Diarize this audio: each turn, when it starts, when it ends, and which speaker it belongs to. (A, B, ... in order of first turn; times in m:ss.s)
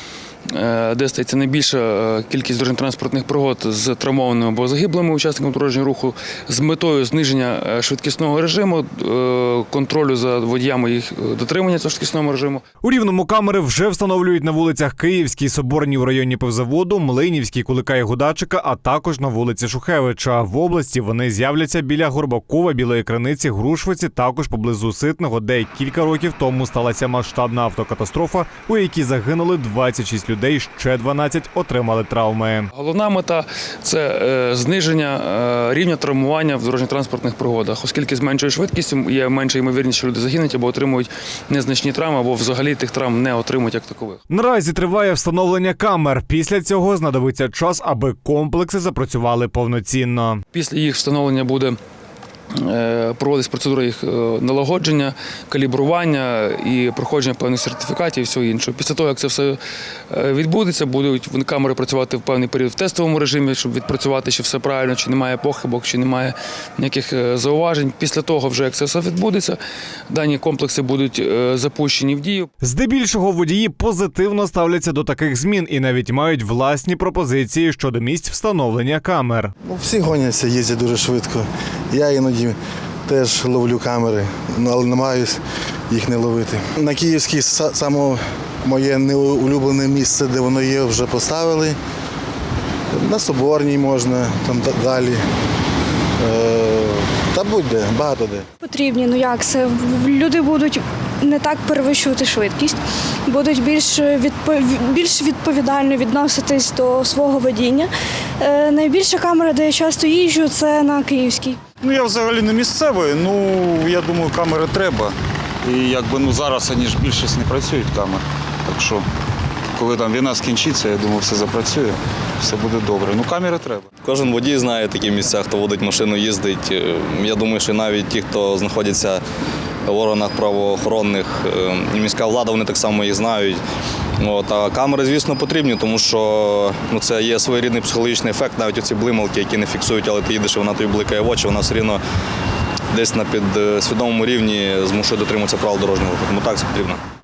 0:00.5-0:12.6 A
0:12.8-0:32.7 B
0:32.7-0:44.2 A
0:44.3-0:50.4 B
0:50.5-0:51.8 A
0:52.5-1:12.5 A
1:12.6-1:19.5 B
1:19.6-1:25.4 C
1:25.9-1:31.8 C
1:32.9-1:35.2 C
1:36.2-1:38.4 C
1:38.6-1:47.9 D
1:48.4-1:51.7 D
1:51.8-1:59.1 E
1:59.8-2:03.9 E
2:04.0-2:09.2 F
2:09.9-2:13.6 F
2:14.2-2:22.0 F
2:22.9-2:27.0 F